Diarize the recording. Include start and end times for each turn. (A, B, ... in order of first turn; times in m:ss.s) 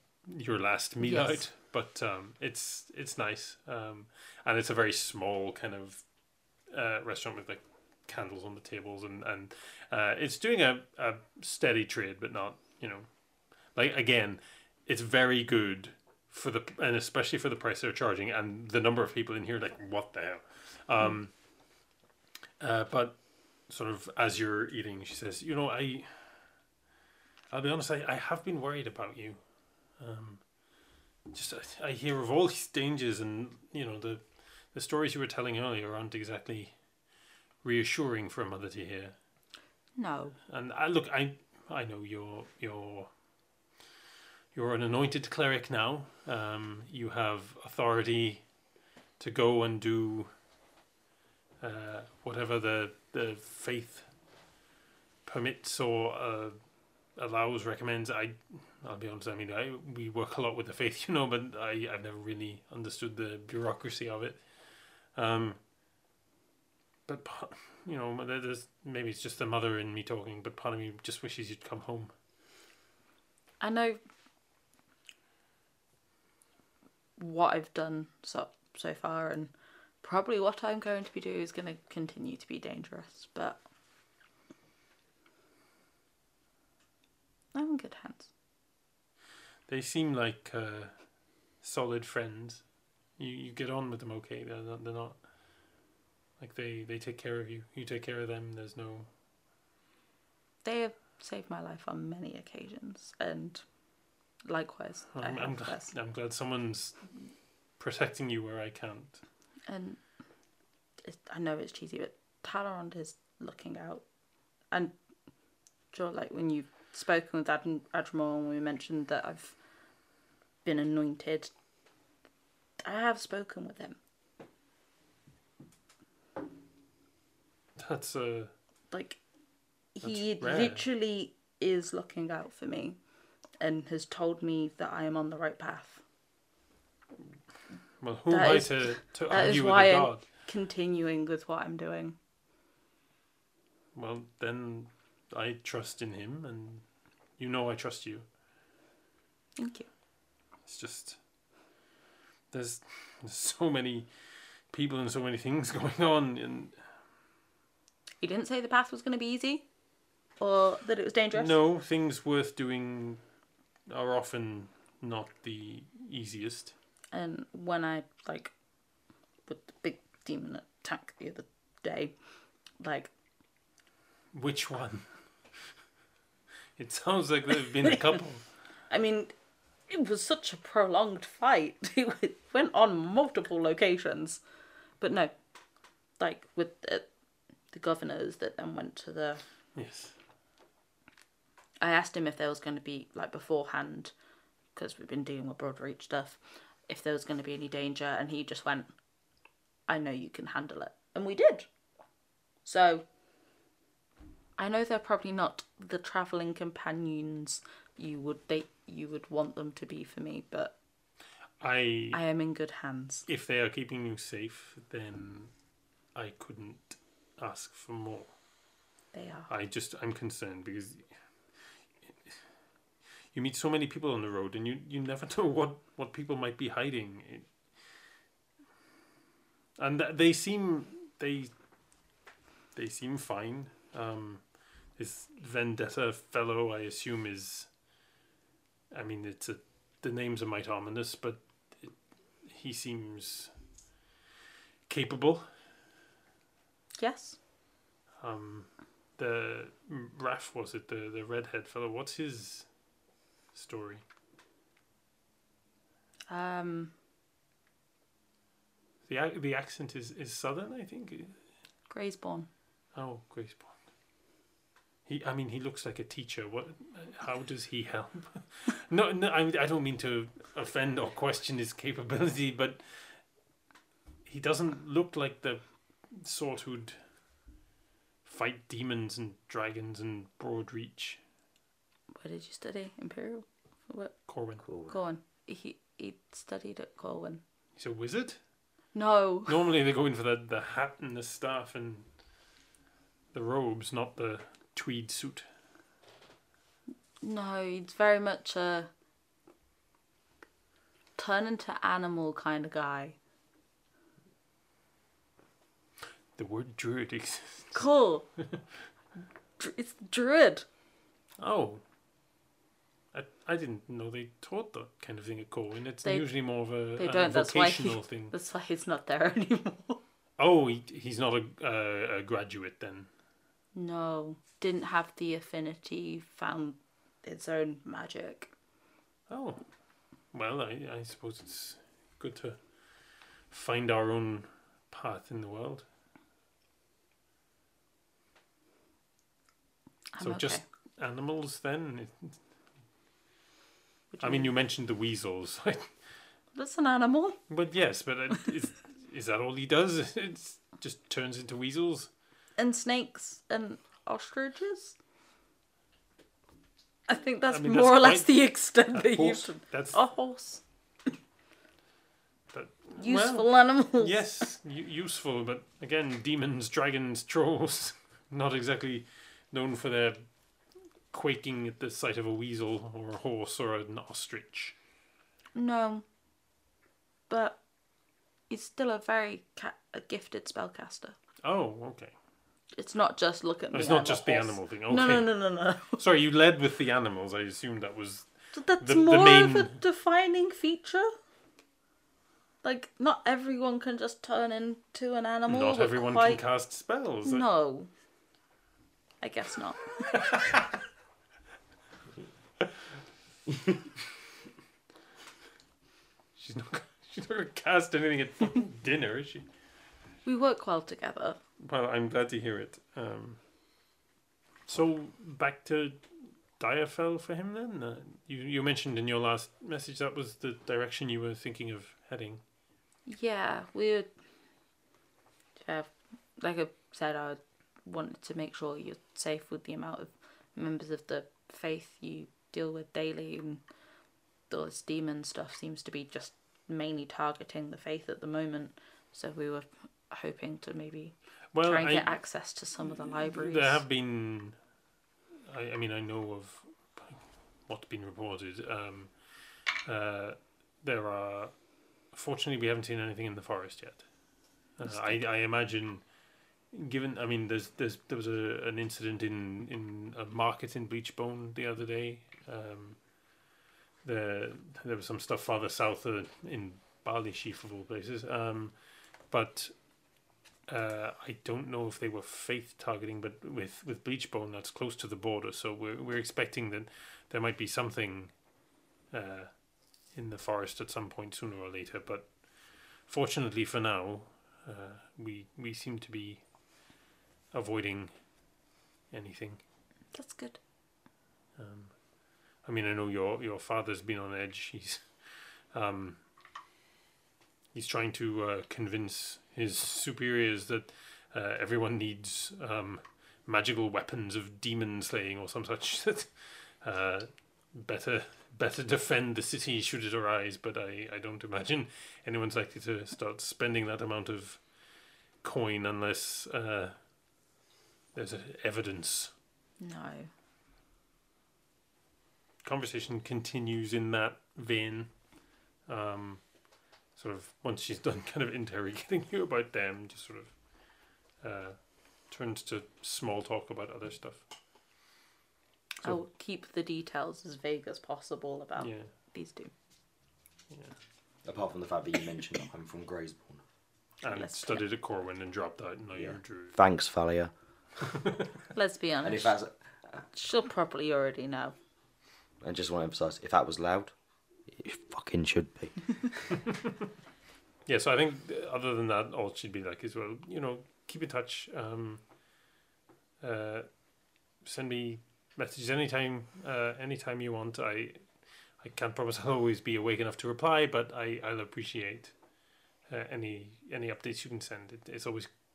0:00.3-0:06.0 A
0:01.0-0:01.4 B
0:06.7-0:13.1 A
0:13.7-0:21.3 A
0:22.6-0:26.4 A
0:27.5-0:29.4 A
0:30.0-0:30.4 A
0:31.3-0:36.7 A
0:37.6-0:39.1 A
0:40.0-0:40.4 B
0:40.5-0:43.1 A
0:44.5-0:48.4 A
0:49.2-0:50.3 A
0:51.6-0:54.1 A
0:55.2-0:56.6 A
0:57.2-1:04.5 A
1:05.1-1:05.6 A
1:07.0-1:12.1 A
1:13.6-1:14.0 B
1:17.2-1:19.5 B
1:20.0-1:23.6 B
1:27.5-1:28.3 B
1:29.7-1:31.0 A
1:31.6-1:32.6 A
1:33.2-1:35.2 A
1:36.4-1:39.1 A
1:40.6-1:43.6 B
1:44.4-1:45.9 B
1:45.1-1:49.2 A
1:49.7-1:50.0 B
1:51.0-1:54.0 B
1:55.9-1:59.6 B
2:00.6-2:01.5 B
2:02.8-2:04.0 B
2:07.8-2:08.5 A
2:08.9-2:09.2 B
2:09.9-2:13.0 B
2:10.0-2:10.8 A
2:13.6-2:16.0 B
2:18.0-2:20.2 A
2:18.3-2:22.2 B
2:23.9-2:26.8 A
2:27.4-2:28.2 A
2:29.6-2:29.9 B
2:30.6-2:31.2 A
2:32.5-2:34.1 A
2:34.7-2:36.7 A
2:38.2-2:39.6 B
2:40.4-2:41.6 B
2:41.3-2:43.2 A
2:43.9-2:46.7 A
2:47.1-2:48.5 B
2:49.5-2:52.1 B
2:52.8-2:53.1 B
2:54.3-2:55.1 A
2:56.8-2:58.4 A
2:58.9-2:59.3 B
2:59.9-3:04.4 B
3:05.0-3:05.3 B
3:06.2-3:07.1 B
3:07.7-3:09.4 B
3:09.7-3:10.1 A
3:11.8-3:14.1 B
3:14.7-3:18.9 B
3:19.9-3:21.7 B
3:22.6-3:23.0 B
3:24.6-3:30.7 B
3:31.6-3:32.2 A
3:32.1-3:33.2 B
3:33.3-3:35.5 A
3:36.1-3:38.3 A
3:39.1-3:39.5 B
3:39.5-3:41.0 A
3:43.3-3:47.5 A
3:49.8-3:51.5 A
3:52.7-3:57.7 A
3:58.9-4:03.5 A
4:04.9-4:05.5 A
4:07.0-4:07.4 B
4:08.2-4:12.7 A
4:13.5-4:14.0 A
4:16.3-4:16.9 B
4:19.1-4:21.4 A
4:21.9-4:22.5 B
4:22.9-4:23.7 A
4:25.0-4:33.2 A
4:34.2-4:37.0 A
4:38.2-4:41.2 A
4:42.1-4:44.1 B
4:44.3-4:44.6 A
4:44.6-4:44.9 C
4:44.9-4:47.4 B
4:47.8-4:48.4 A
4:48.9-4:49.6 B
4:49.5-4:52.0 A
4:53.3-4:55.4 A
4:57.2-4:58.9 B
5:01.2-5:03.2 B
5:06.4-5:07.8 A
5:07.7-5:08.3 B
5:09.6-5:10.6 B
5:11.4-5:11.8 A
5:13.1-5:18.3 A
5:16.0-5:16.3 B
5:17.0-5:20.0 B
5:20.4-5:23.1 A
5:23.7-5:28.5 B
5:29.3-5:29.6 A
5:30.3-5:32.6 A
5:33.5-5:35.8 A
5:40.1-5:40.6 B
5:40.2-5:42.4 A
5:44.1-5:44.5 B
5:44.2-5:45.9 A
5:46.5-5:47.4 B
5:47.5-5:52.1 A
5:52.6-5:55.0 B
5:57.1-6:00.6 B
5:57.5-6:00.0 A
6:02.5-6:10.2 A
6:03.0-6:04.2 B
6:11.1-6:14.7 A
6:15.5-6:16.0 B
6:17.3-6:17.6 B
6:18.5-6:21.2 B
6:21.4-6:22.1 A
6:22.8-6:26.0 B
6:23.7-6:25.3 A
6:25.9-6:29.8 A
6:28.5-6:31.1 B
6:32.6-6:36.4 B
6:35.5-6:37.4 A
6:37.2-6:37.9 B
6:39.2-6:40.2 B
6:40.1-6:40.6 A
6:46.4-6:49.4 A
6:50.2-6:51.4 B
6:51.6-6:53.4 A
6:54.7-6:56.0 A
6:56.6-7:02.4 A
7:03.0-7:04.1 B
7:05.6-7:13.6 B
7:14.5-7:23.8 B
7:21.5-7:22.2 A
7:22.9-7:24.6 A
7:25.5-7:36.2 A
7:34.8-7:35.2 B
7:36.7-7:43.2 A
7:44.0-7:49.8 A
7:50.7-7:58.4 A
7:59.1-8:06.4 A
8:07.5-8:08.1 A
8:09.1-8:09.6 A
8:10.1-8:10.6 B
8:11.6-8:12.0 A
8:12.6-8:16.2 A
8:17.7-8:34.7 A
8:35.4-8:37.0 A
8:38.1-8:39.3 A
8:39.8-8:40.3 B
8:42.6-8:45.1 A
8:45.8-8:46.4 A
8:47.1-8:50.5 A
8:51.4-8:54.4 A
8:56.0-8:59.7 B
8:58.8-8:59.1 A
9:01.4-9:03.6 C
9:04.2-9:06.8 A
9:04.2-9:04.8 B
9:06.7-9:07.5 C
9:08.7-9:09.6 B
9:09.2-9:10.2 C
9:10.3-9:11.7 B
9:12.6-9:14.1 C
9:14.7-9:16.4 C
9:17.8-9:22.2 A
9:23.4-9:24.0 A
9:24.6-9:32.3 A
9:33.1-9:35.5 A